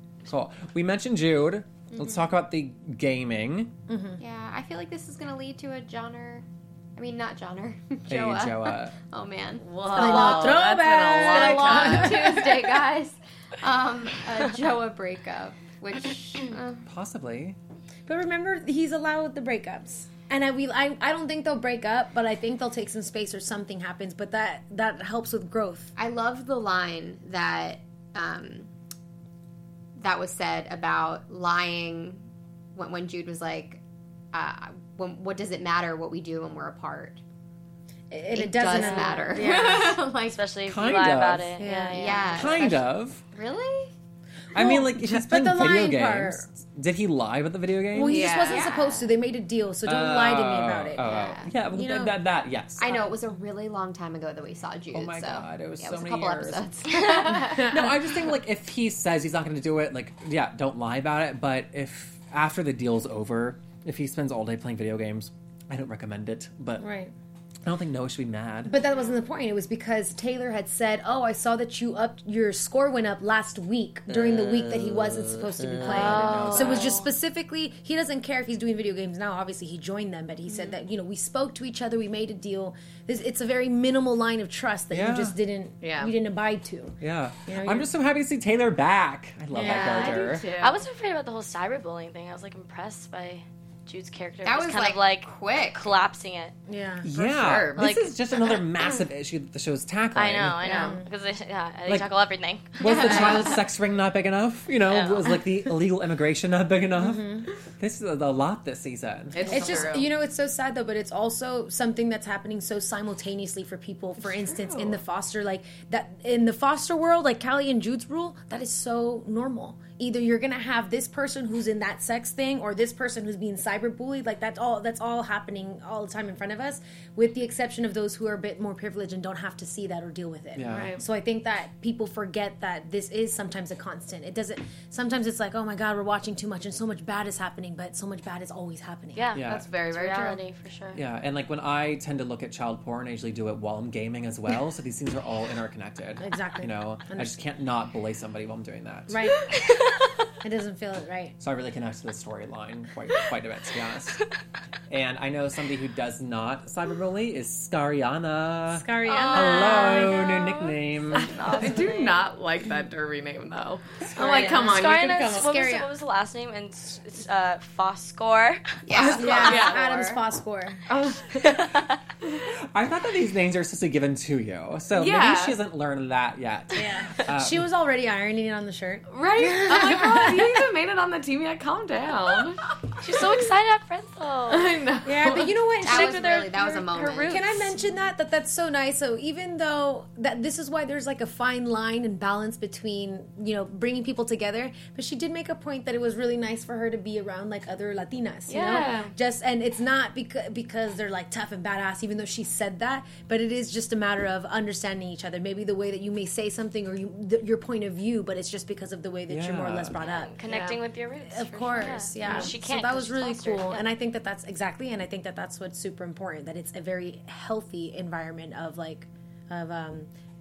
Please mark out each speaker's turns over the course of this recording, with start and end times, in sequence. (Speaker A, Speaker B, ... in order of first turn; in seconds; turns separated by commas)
Speaker A: 0.2-3.7, Speaker B: 1.9-2.3, Speaker C: 3.9-4.2, Speaker B: 4.2-6.4, Speaker B: 7.0-16.8, Speaker A: 8.1-9.0, Speaker D: 9.6-12.5, Speaker C: 9.9-12.8, Speaker A: 16.9-17.6, Speaker C: 18.1-25.9, Speaker B: 25.9-28.7, Speaker B: 30.0-32.2, Speaker B: 32.7-33.8, Speaker B: 34.3-37.2, Speaker C: 38.1-40.0, Speaker B: 38.3-40.4, Speaker E: 38.7-39.5, Speaker E: 40.2-42.6, Speaker A: 40.6-41.6, Speaker C: 41.6-42.3, Speaker B: 41.9-43.9, Speaker A: 42.3-43.2, Speaker A: 44.5-48.4, Speaker C: 44.5-46.5, Speaker C: 47.9-51.0, Speaker B: 48.1-49.1, Speaker D: 48.1-48.6, Speaker A: 49.8-53.1, Speaker B: 51.0-51.5, Speaker C: 51.7-52.2, Speaker B: 52.8-57.9, Speaker A: 54.9-56.7, Speaker C: 57.5-57.8, Speaker A: 57.5-66.9, Speaker C: 66.8-67.1, Speaker A: 67.6-68.8, Speaker C: 68.6-87.9, Speaker A: 75.6-76.9, Speaker E: 75.8-77.1, Speaker A: 84.9-85.4, Speaker D: 85.8-86.1, Speaker A: 87.0-90.5, Speaker C: 89.5-90.2, Speaker D: 89.6-90.8, Speaker E: 90.6-96.5, Speaker B: 94.4-95.9, Speaker C: 96.7-97.1, Speaker A: 97.0-100.6, Speaker D: 97.2-97.8, Speaker E: 97.7-98.6, Speaker E: 100.1-103.6, Speaker D: 100.6-101.0, Speaker C: 100.7-101.1, Speaker A: 101.8-102.1, Speaker A: 102.8-109.8, Speaker C: 103.0-103.4, Speaker E: 104.9-105.4, Speaker C: 107.0-107.5, Speaker D: 109.3-110.1, Speaker C: 109.4-139.3, Speaker D: 114.2-115.0, Speaker A: 130.5-130.9, Speaker D: 130.6-131.0, Speaker E: 139.2-141.0, Speaker A: 139.3-139.7, Speaker D: 139.4-140.4, Speaker A: 140.9-149.2, Speaker C: 146.2-147.4, Speaker C: 149.1-149.5, Speaker C: 150.4-151.3, Speaker A: 151.4-154.2, Speaker A: 154.9-161.3, Speaker C: 158.7-160.2, Speaker E: 159.1-162.3, Speaker D: 161.3-165.5, Speaker E: 164.1-170.2, Speaker C: 164.2-164.8, Speaker C: 165.3-165.9, Speaker B: 168.9-169.7, Speaker C: 168.9-170.8, Speaker D: 169.3-169.8, Speaker D: 170.9-171.6, Speaker E: 171.3-172.0, Speaker A: 172.5-177.6, Speaker D: 174.9-175.6, Speaker C: 176.7-180.6, Speaker D: 179.1-183.1, Speaker E: 183.0-184.8, Speaker D: 184.5-185.6, Speaker C: 185.0-210.3, Speaker B: 185.8-187.6, Speaker D: 187.0-187.4, Speaker D: 198.5-199.1, Speaker E: 198.5-199.1, Speaker A: 209.3-209.9, Speaker E: 210.0-213.9, Speaker D: 210.4-210.8, Speaker C: 211.3-220.1, Speaker D: 212.2-212.5